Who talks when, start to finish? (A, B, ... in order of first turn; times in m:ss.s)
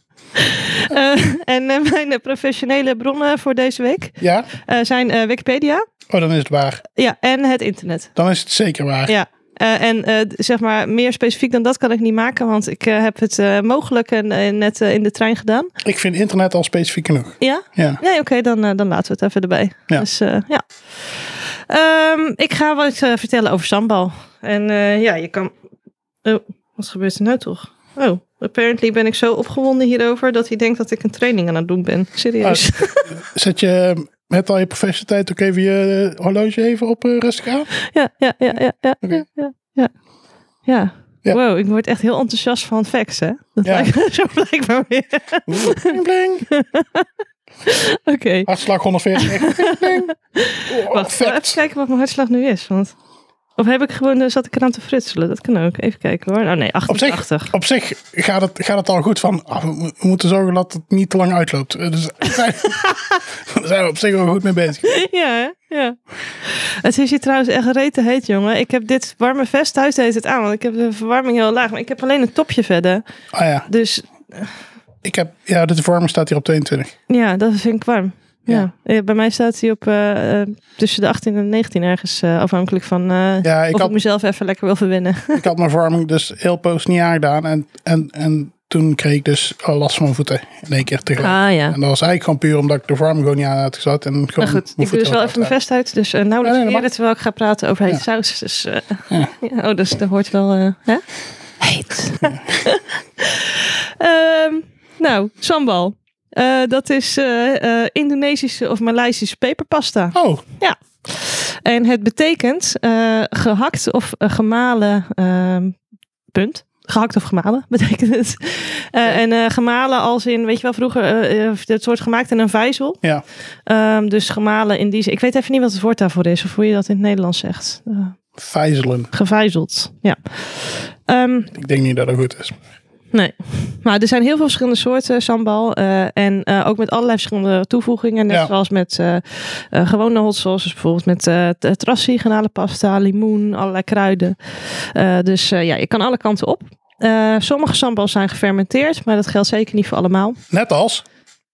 0:00.3-0:05.8 A
0:04.2-0:04.5 B
0:06.1-0:06.8 B
0:06.9-0:08.1 A
0:08.2-0:09.1 B
0:09.1-0:15.7 A
0:15.8-0:18.0 B
0:17.4-0:25.5 A
0:26.2-0:33.1 A
0:32.4-0:37.7 B
0:37.8-0:39.9 A
0:40.6-0:47.1 A
0:43.6-0:43.9 B
0:45.5-0:46.5 B
0:47.6-0:48.5 A
0:48.4-0:50.1 B
0:49.2-0:52.9 A
0:50.6-0:51.6 B
0:53.6-0:57.5 A
0:56.9-1:04.9 B
1:04.8-1:13.0 A
1:13.3-1:13.7 B
1:13.7-1:14.5 A
1:15.0-1:16.9 B
1:17.1-1:25.4 A
1:23.4-1:23.9 B
1:25.3-1:35.5 B
1:31.2-1:31.8 A
1:34.4-1:41.0 A
1:36.4-1:36.8 B
1:41.6-1:55.8 A
1:50.1-1:50.4 B
1:56.3-2:03.0 A
2:03.7-2:08.2 A
2:08.4-2:09.1 B
2:09.1-2:11.5 A
2:11.5-2:12.6 B
2:13.1-2:30.4 A
2:30.5-2:31.0 B